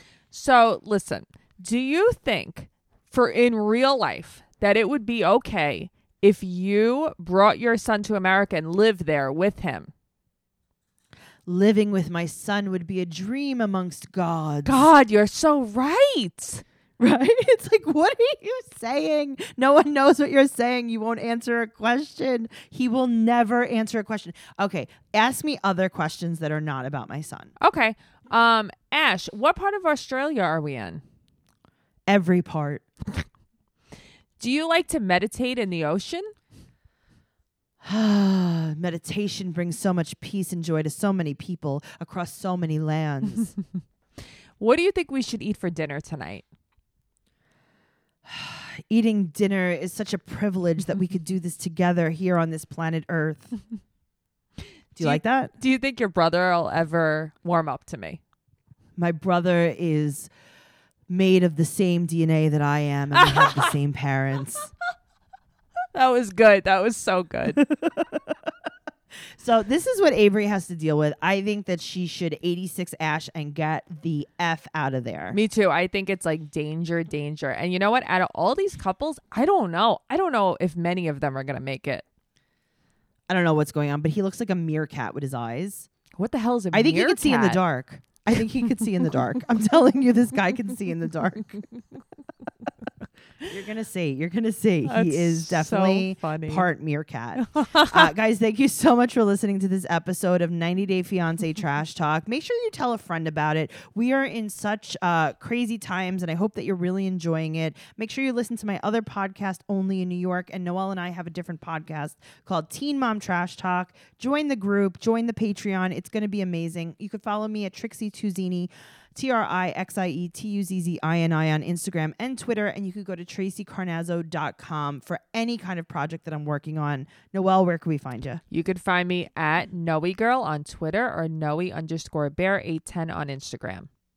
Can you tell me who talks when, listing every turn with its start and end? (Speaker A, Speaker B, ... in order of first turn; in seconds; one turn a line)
Speaker A: 0.3-9.9
Speaker B: 11.4-14.9
Speaker A: 14.6-16.6
Speaker B: 17.0-27.5
Speaker A: 27.6-31.0
Speaker B: 32.1-32.8
Speaker A: 34.4-36.3
Speaker B: 37.8-43.5
Speaker A: 44.6-46.4
Speaker B: 48.2-53.5
Speaker B: 54.9-55.5
Speaker A: 55.0-58.2
Speaker B: 59.0-60.3
Speaker B: 61.1-64.7
Speaker A: 63.1-63.7
Speaker A: 65.9-67.6
Speaker B: 67.6-68.3
Speaker B: 69.4-75.4
Speaker A: 75.3-82.0
Speaker B: 83.3-85.9
Speaker A: 86.1-87.6
Speaker B: 86.7-91.6
Speaker B: 93.4-128.4
Speaker A: 94.8-96.7
Speaker A: 97.4-98.1
Speaker A: 128.5-133.9